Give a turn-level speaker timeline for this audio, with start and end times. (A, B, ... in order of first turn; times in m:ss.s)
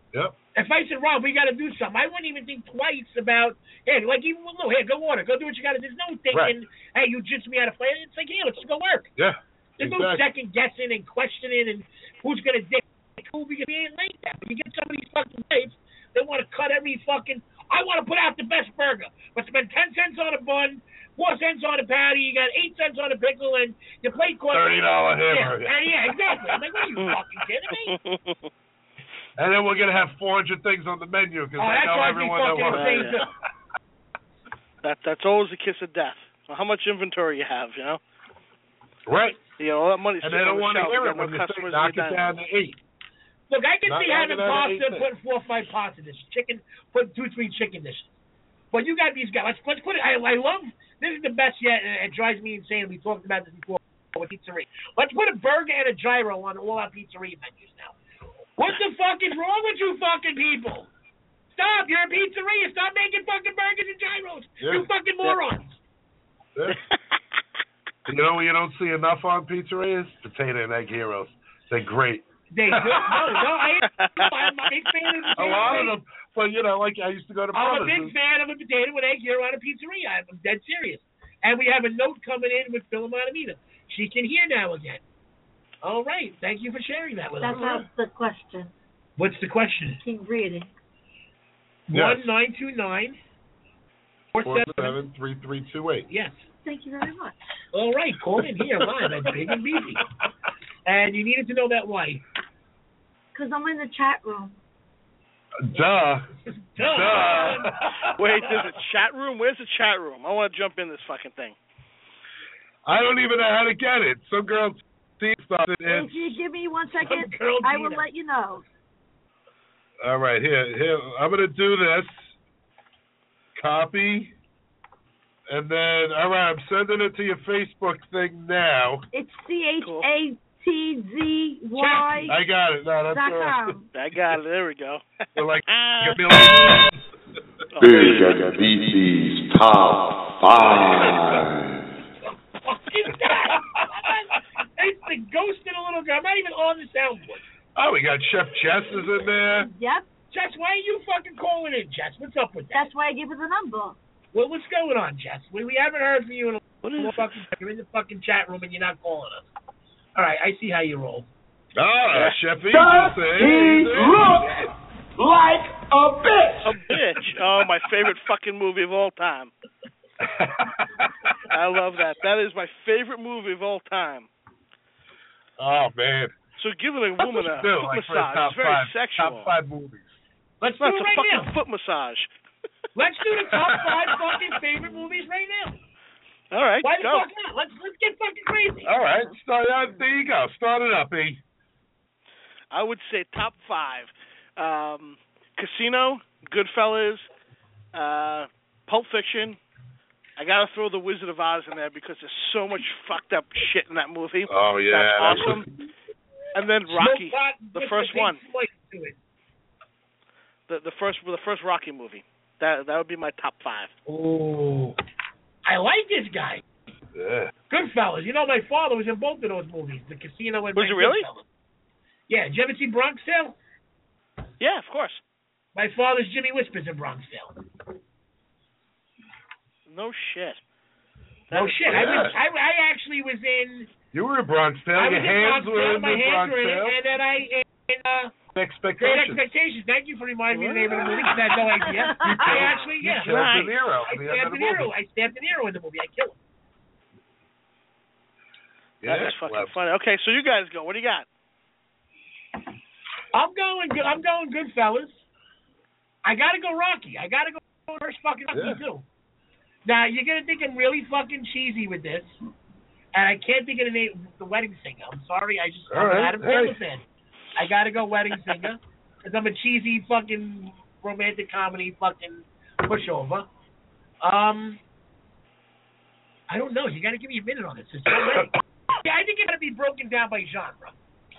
0:00.6-0:09.1 A
0:09.2-0:10.2 B
0:09.8-0:24.7 A
0:24.5-0:25.8 B
0:25.3-0:27.9 A
0:27.8-0:28.5 C
0:29.4-0:33.2 B
0:31.6-0:33.3 A
0:32.7-0:33.2 C
0:34.8-0:38.0 C
0:39.1-0:39.5 B
0:39.6-0:42.2 C
0:40.2-0:42.8 B
0:43.5-0:48.1 A
0:43.9-0:45.1 B
0:48.7-0:58.0 A
0:58.6-1:00.9 A
1:01.5-1:05.8 A
1:04.6-1:04.9 B
1:08.1-1:13.3 B
1:12.5-1:15.9 A
1:13.8-1:15.6 C
1:15.4-1:18.1 B
1:17.5-1:25.0 A
1:25.8-1:27.8 A
1:27.4-1:28.7 D
1:29.2-1:30.0 A
1:30.0-1:30.7 D
1:31.9-1:33.2 A
1:31.9-1:32.2 B
1:34.3-1:35.0 A
1:34.4-1:36.1 B
1:36.1-1:36.4 A
1:36.6-1:37.4 D
1:37.7-1:40.0 A
1:40.9-1:42.2 A
1:43.3-1:44.6 D
1:45.7-1:46.3 B
1:46.5-1:47.7 A
1:46.8-1:48.0 B
1:48.2-1:51.6 C
1:52.9-1:56.4 B
1:55.8-1:58.6 D
1:57.0-1:58.1 A
2:00.0-2:02.3 B
2:03.6-2:04.3 B
2:05.5-2:09.0 B
2:09.1-2:12.4 D
2:09.8-2:10.1 C
2:11.8-2:12.3 A
2:12.3-2:13.8 B
2:13.1-2:13.9 D
2:13.9-2:15.0 C
2:15.4-2:17.0 B
2:15.7-2:16.7 C
2:17.8-2:18.4 C
2:17.8-2:21.9 E
2:22.6-2:27.4 A
2:27.8-2:29.7 B
2:29.5-2:30.1 D
2:30.3-2:32.9 A
2:32.7-2:34.0 D
2:34.3-2:39.5 A
2:36.8-2:37.4 C
2:40.2-2:41.3 A
2:41.8-2:44.4 B
2:42.1-2:42.4 C
2:42.7-2:46.9 F
2:46.6-2:49.5 C
2:50.2-2:51.1 B
2:51.5-2:54.3 C
2:55.6-2:56.4 B
2:56.6-2:59.5 C
2:57.2-3:00.2 B
3:00.6-3:01.5 A
3:00.8-3:02.3 C
3:03.0-3:05.8 A
3:03.5-3:04.1 B
3:06.5-3:07.3 C
3:06.8-3:08.9 A
3:08.8-3:11.4 B
3:12.7-3:17.2 C
3:17.9-3:19.6 C
3:20.4-3:25.7 C
3:24.5-3:25.7 B
3:26.6-3:28.4 C
3:26.9-3:29.2 A
3:30.7-3:33.9 C
3:34.1-3:35.0 A
3:35.7-3:36.6 A
3:37.2-3:37.5 B
3:37.7-3:41.4 A
3:40.8-3:41.3 C
3:42.3-3:43.6 A
3:44.6-3:45.2 C
3:45.8-3:47.6 A
3:49.9-3:50.6 C
3:51.5-3:51.9 C
3:51.5-3:53.9 A
3:51.9-3:52.4 B
3:54.1-3:57.0 B
3:55.0-3:58.3 A
3:58.6-3:59.4 B
3:59.0-4:03.3 A
4:00.5-4:00.9 C
4:01.0-4:02.7 D
4:02.2-4:04.9 B
4:03.2-4:03.7 C
4:04.1-4:06.4 A
4:09.0-4:09.7 B
4:09.0-4:11.3 C
4:13.3-4:15.2 A
4:16.2-4:19.0 A
4:18.5-4:18.8 B
4:19.8-4:22.3 A
4:23.1-4:27.0 A
4:25.9-4:26.8 B
4:27.6-4:33.5 A
4:34.2-4:34.8 A
4:36.5-4:41.0 A